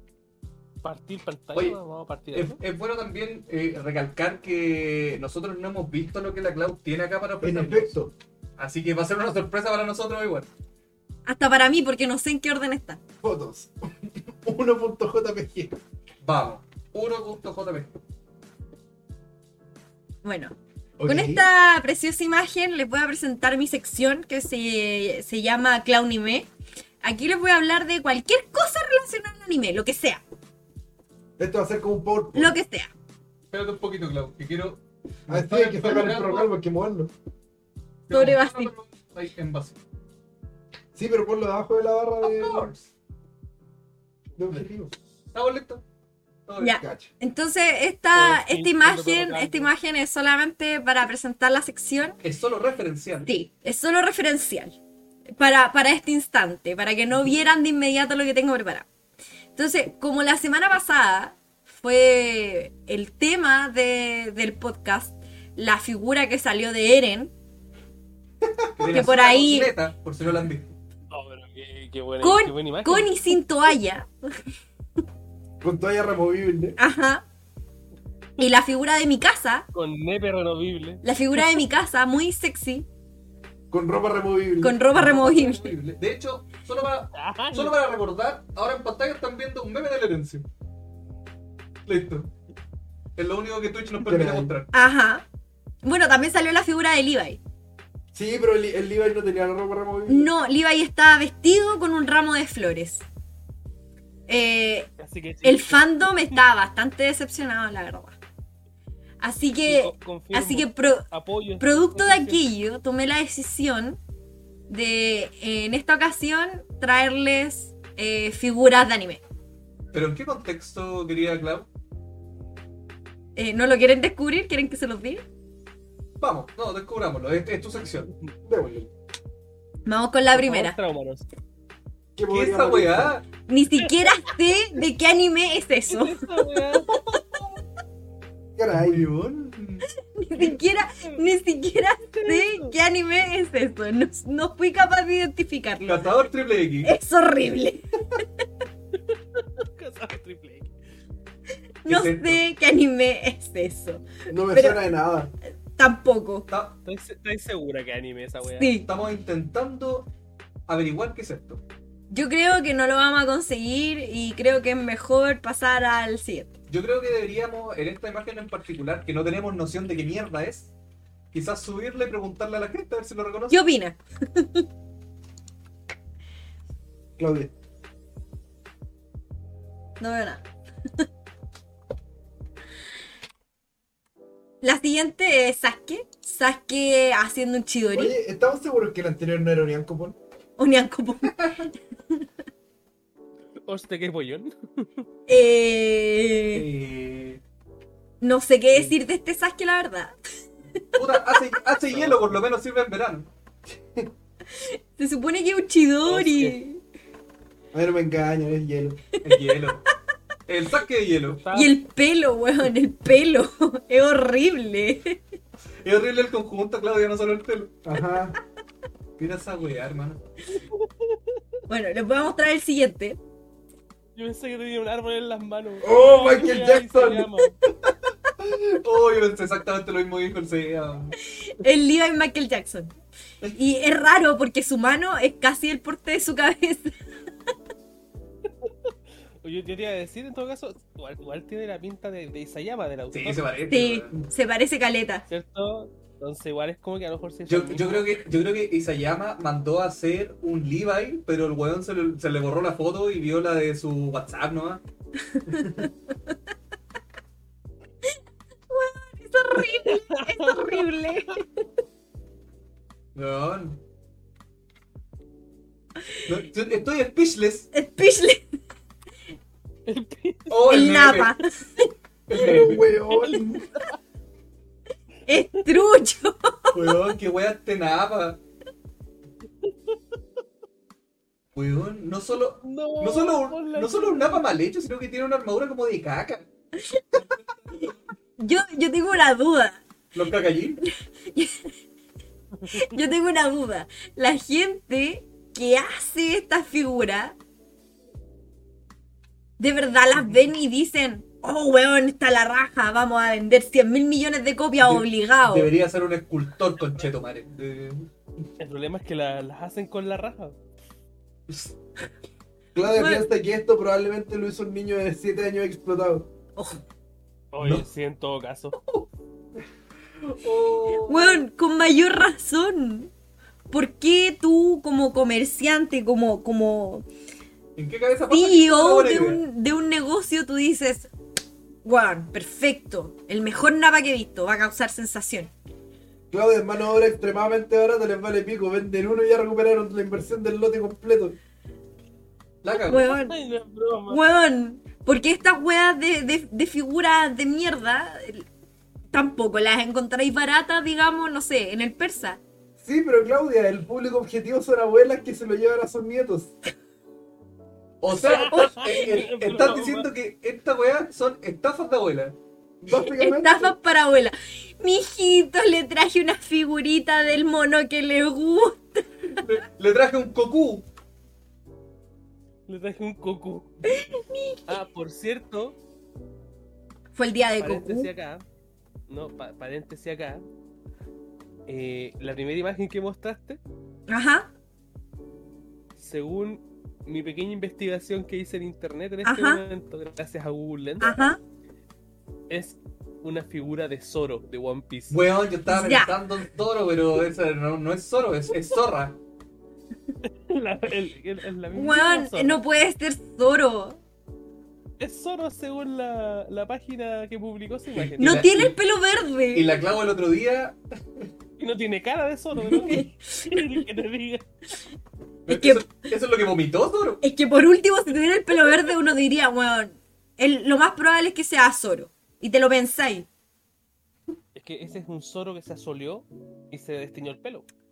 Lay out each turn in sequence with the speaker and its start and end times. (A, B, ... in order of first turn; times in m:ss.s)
0:00.8-0:02.6 A
0:02.3-0:08.0 B
0:07.4-0:08.1 C
0:08.6-0:10.5 B
0:11.3-0:13.0 D
0:13.2-0:15.8 C
0:16.2-0:17.9 B
0:20.2-0:26.5 D
0:21.0-0:21.5 C
0:27.0-0:30.2 D
0:31.4-0:32.6 C
0:32.4-0:32.9 D
0:33.5-0:36.5 B
0:35.3-0:37.1 C
0:38.1-0:39.8 B
0:38.1-0:38.7 D
0:41.0-0:42.7 C
0:42.2-0:42.9 B
0:44.4-0:44.9 C
0:45.3-0:45.8 B
0:46.5-0:46.8 B
0:46.6-0:52.2 D
0:46.8-0:47.1 C
0:48.1-0:49.7 A
0:52.2-0:53.3 B
0:53.3-0:54.8 D
0:55.4-0:58.9 D
0:59.6-1:07.3 D
1:08.6-1:09.0 C
1:08.8-1:10.7 B
1:08.9-1:09.7 D
1:11.1-1:13.1 A
1:12.2-1:14.1 D
1:15.6-1:16.8 C
1:16.8-1:17.2 D
1:18.4-1:19.7 D
1:19.7-1:21.6 A
1:21.0-1:22.9 D
1:23.7-1:24.8 C
1:24.6-1:25.8 D
1:24.9-1:30.5 B
1:27.1-1:27.8 A
1:31.9-1:32.3 B
1:33.2-1:34.7 B
1:34.0-1:34.5 C
1:34.7-1:35.3 D
1:35.8-1:37.4 D
1:38.1-1:40.3 C
1:40.1-1:43.0 D
1:44.3-1:44.9 D
1:45.0-1:45.9 A
1:45.4-1:48.2 D
1:49.2-1:51.0 D
1:49.6-1:52.4 A
1:51.6-1:54.0 D
1:54.7-1:59.2 D
1:59.9-2:01.7 B
2:03.4-2:05.2 D
2:06.2-2:08.1 B
2:08.4-2:08.9 C
2:09.9-2:10.8 D
2:10.3-2:11.3 A
2:12.2-2:13.2 C
2:12.3-2:13.2 B
2:13.5-2:16.6 D
2:15.9-2:16.9 A
2:18.6-2:19.1 C
2:18.7-2:19.9 B
2:20.2-2:26.1 D
2:20.4-2:21.2 A
2:22.1-2:22.8 A
2:25.9-2:26.9 B
2:26.8-2:28.2 D
2:29.1-2:30.7 A
2:31.8-2:34.8 D
2:31.9-2:32.4 B
2:34.3-2:35.3 C
2:35.8-2:36.5 D
2:36.5-2:36.8 B
2:36.8-2:38.7 A
2:38.6-2:38.9 D
2:38.9-2:40.1 B
2:40.7-2:41.6 B
2:42.1-2:46.6 D
2:46.7-2:50.7 B
2:51.3-2:53.6 B
2:53.5-2:54.7 D
2:57.2-2:57.5 C
3:00.0-3:00.4 D
3:04.6-3:08.1 D
3:07.9-3:10.2 C
3:10.6-3:12.2 D
3:11.2-3:11.6 B
3:13.6-3:15.1 A
3:15.3-3:16.6 D
3:16.5-3:17.4 B
3:18.2-3:20.1 D
3:21.0-3:23.3 B
3:21.9-3:22.2 A
3:24.5-3:26.8 D
3:26.1-3:26.6 A
3:27.7-3:29.0 C
3:29.2-3:29.9 B
3:30.5-3:31.4 B
3:31.3-3:31.8 A
3:31.5-3:35.2 D
3:35.8-3:37.8 B
3:37.8-3:38.4 C
3:39.2-3:40.2 B
3:40.6-3:41.4 A
3:41.7-3:43.2 D
3:44.2-3:47.6 A
3:45.8-3:47.3 C
3:48.4-3:51.2 B
3:51.3-3:52.9 D
3:53.6-3:56.9 D
3:58.6-3:58.9 A
3:59.4-4:03.5 A
4:03.1-4:04.2 B
4:03.7-4:05.2 D
4:05.3-4:08.2 A
4:07.5-4:14.8 B
4:15.5-4:15.9 D
4:18.7-4:21.7 D
4:19.7-4:21.3 A
4:23.2-4:23.8 B
4:26.3-4:27.7 B
4:27.7-4:28.4 D
4:29.9-4:30.6 A
4:30.5-4:31.4 B
4:30.7-4:31.9 D
4:32.3-4:32.9 B
4:32.3-4:33.7 C
4:33.1-4:33.9 A
4:35.3-4:37.0 D
4:35.3-4:35.7 A
4:36.7-4:38.4 B
4:39.6-4:40.0 A
4:41.6-4:46.5 B
4:42.6-4:44.4 A
4:46.8-4:47.2 D
4:47.2-4:48.0 B
4:48.4-4:49.8 D
4:50.1-4:50.8 B
4:51.3-4:51.7 D
4:52.6-4:53.0 A
4:52.7-4:57.4 D
4:59.6-5:05.7 D
5:04.8-5:08.1 B
5:08.6-5:10.6 A
5:11.5-5:11.7 B
5:12.8-5:16.3 C
5:12.9-5:13.2 D
5:16.6-5:16.8 D
5:17.5-5:18.8 A
5:18.7-5:19.1 B
5:20.2-5:21.5 B
5:21.1-5:23.1 D
5:23.7-5:27.1 D
5:27.8-5:29.4 B
5:28.3-5:31.1 D
5:31.8-5:35.5 D
5:36.3-5:41.4 C
5:42.6-5:43.1 B
5:42.9-5:43.4 D
5:43.0-5:44.2 A
5:44.1-5:48.5 D
5:49.1-5:52.4 D
5:52.8-5:56.6 C
5:58.0-6:02.4 B
5:58.2-6:00.1 A
6:02.8-6:03.8 C
6:03.1-6:09.0 D
6:09.3-6:10.9 B
6:12.7-6:13.7 A
6:13.9-6:14.6 D
6:14.7-6:15.8 A
6:17.2-6:18.1 D
6:17.6-6:18.4 A
6:19.1-6:20.5 A
6:21.7-6:23.6 A
6:24.1-6:24.5 D
6:26.0-6:31.3 A
6:29.2-6:29.6 D
6:31.0-6:31.4 D
6:32.5-6:35.2 A
6:35.1-6:39.2 B
6:35.7-6:36.1 D
6:40.2-6:42.6 A
6:41.7-6:44.0 D
6:45.0-6:48.4 A
6:47.9-6:48.8 B
6:48.2-6:49.7 D
6:49.5-6:51.3 B
6:51.6-6:54.5 A
6:52.7-6:53.0 B
6:52.8-6:53.6 D
6:55.5-6:57.2 B
6:55.5-6:55.8 D
6:57.2-7:03.3 D
7:04.6-7:07.7 A